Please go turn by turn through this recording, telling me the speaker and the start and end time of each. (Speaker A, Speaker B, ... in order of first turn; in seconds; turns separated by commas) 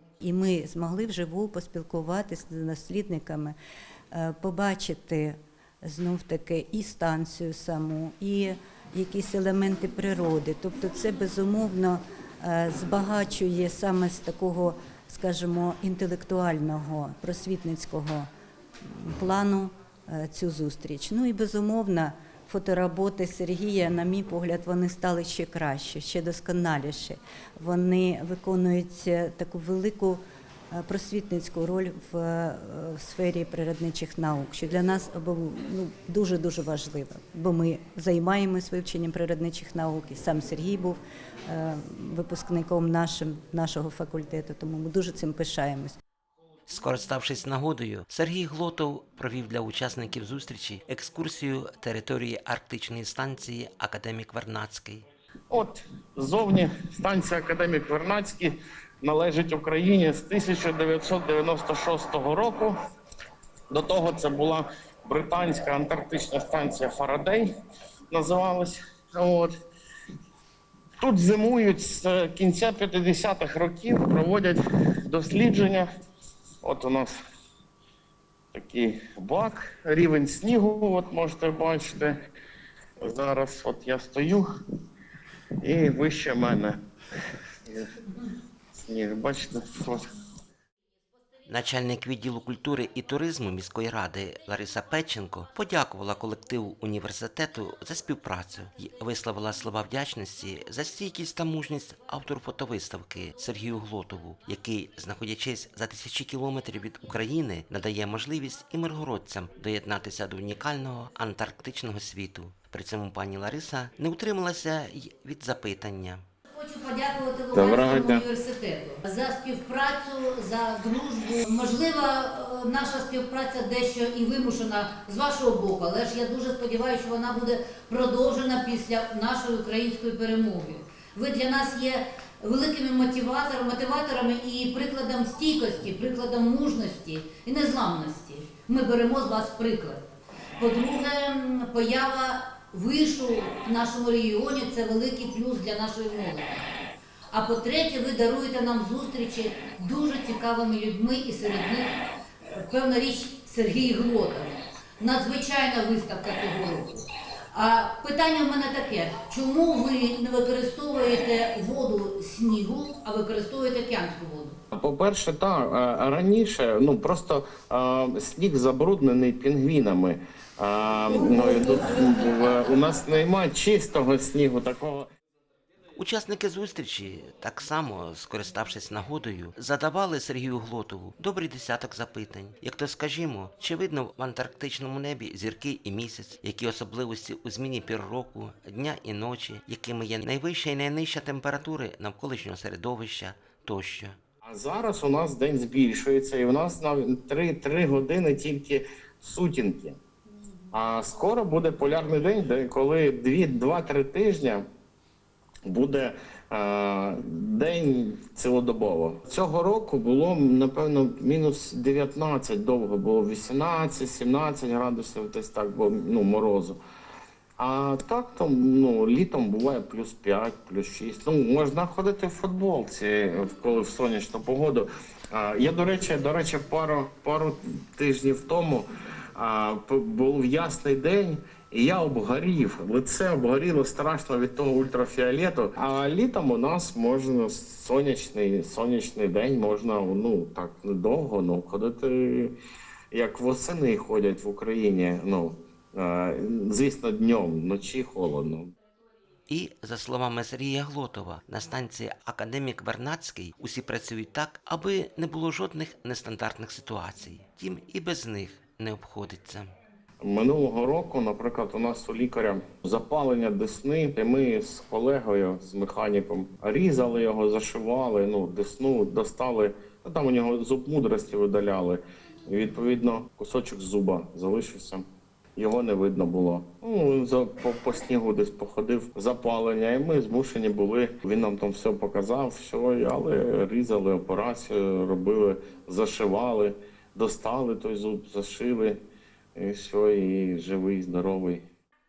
Speaker A: 0.2-3.5, Speaker A: 4.1-18.3, Speaker A: 18.8-46.0, Speaker B: 46.7-55.1, Speaker C: 55.5-62.7, Speaker C: 63.7-67.5, Speaker C: 68.1-69.5, Speaker C: 71.0-75.9, Speaker C: 76.6-77.2, Speaker C: 78.5-82.1, Speaker C: 83.0-84.5, Speaker C: 85.6-86.8, Speaker C: 88.7-90.0, Speaker B: 91.5-116.2, Speaker D: 116.5-140.0, Speaker C: 117.5-118.2, Speaker D: 140.6-146.7, Speaker D: 147.3-164.6, Speaker C: 164.7-175.1, Speaker B: 175.9-194.2, Speaker C: 194.4-200.0, Speaker C: 200.7-204.6, Speaker C: 205.7-216.8, Speaker C: 217.6-242.5, Speaker C: 243.1-248.7, Speaker B: 249.5-259.7, Speaker C: 260.2-275.0, Speaker C: 275.6-289.0, Speaker C: 289.6-291.6